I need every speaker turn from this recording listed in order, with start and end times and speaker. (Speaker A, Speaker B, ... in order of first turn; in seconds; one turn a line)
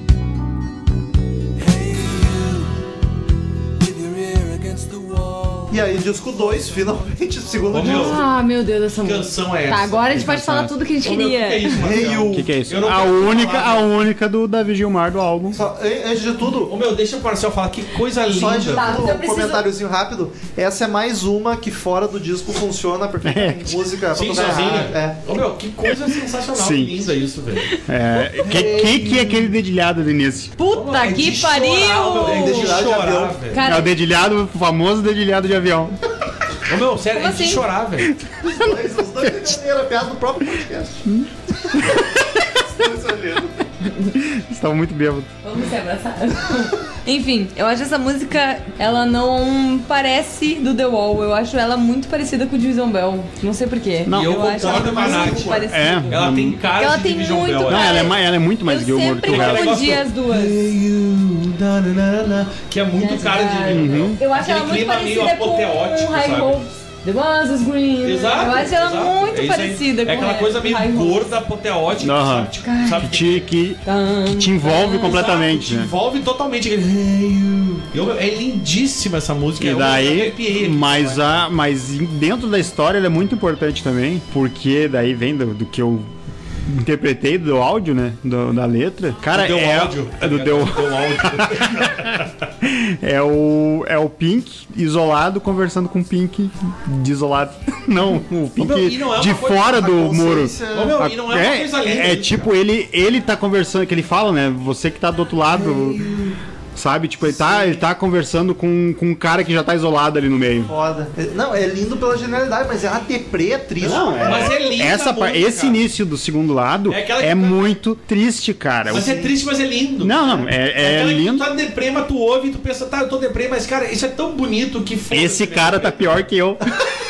Speaker A: 1.6-2.8
Speaker A: 3.8-5.9
Speaker B: 5.7-8.2
Speaker C: 7.7-8.2
Speaker D: 7.8-11.8
Speaker C: 9.0-10.1
Speaker E: 10.1-10.7
Speaker C: 11.0-13.8
Speaker B: 11.8-12.5
Speaker E: 12.0-15.6
Speaker B: 13.2-13.7
Speaker B: 15.5-16.7
Speaker C: 16.6-19.0
Speaker B: 18.3-25.2
Speaker D: 18.7-19.6
Speaker E: 23.2-23.9
Speaker C: 24.1-27.7
Speaker E: 26.5-27.1
Speaker E: 27.9-30.5
Speaker B: 28.4-29.2
Speaker D: 30.6-32.8
Speaker C: 30.7-33.6
Speaker B: 32.4-33.4
Speaker D: 33.5-33.9
Speaker E: 33.6-36.0
Speaker C: 36.7-38.1
Speaker D: 37.1-37.7
Speaker E: 38.2-39.5
Speaker B: 38.4-41.0
Speaker E: 41.1-42.1
Speaker B: 41.7-43.6
Speaker E: 44.1-45.3
Speaker D: 45.4-56.3
Speaker E: 54.1-56.6
Speaker C: 54.1-58.1
Speaker B: 55.2-55.5
Speaker D: 56.8-60.6
Speaker E: 57.7-60.0
Speaker C: 59.3-66.6
Speaker D: 63.0-71.3
Speaker E: 63.7-64.2
Speaker C: 68.0-73.5
Speaker E: 72.0-75.9
Speaker D: 72.6-73.0
Speaker D: 73.8-75.2
Speaker C: 75.0-81.5
Speaker E: 79.6-86.1
Speaker E: 86.7-106.0
Speaker C: 89.3-92.3
Speaker C: 98.6-99.8
Speaker B: 99.7-101.0
Speaker C: 100.7-102.5
Speaker B: 105.5-106.4
Speaker E: 106.8-110.7
Speaker B: 107.2-107.8
Speaker B: 110.7-114.6
Speaker C: 113.8-115.8
Speaker E: 113.8-119.1
Speaker C: 116.9-117.7
Speaker B: 118.9-119.3
Speaker C: 118.9-126.2
Speaker E: 120.0-121.5
Speaker E: 125.1-126.8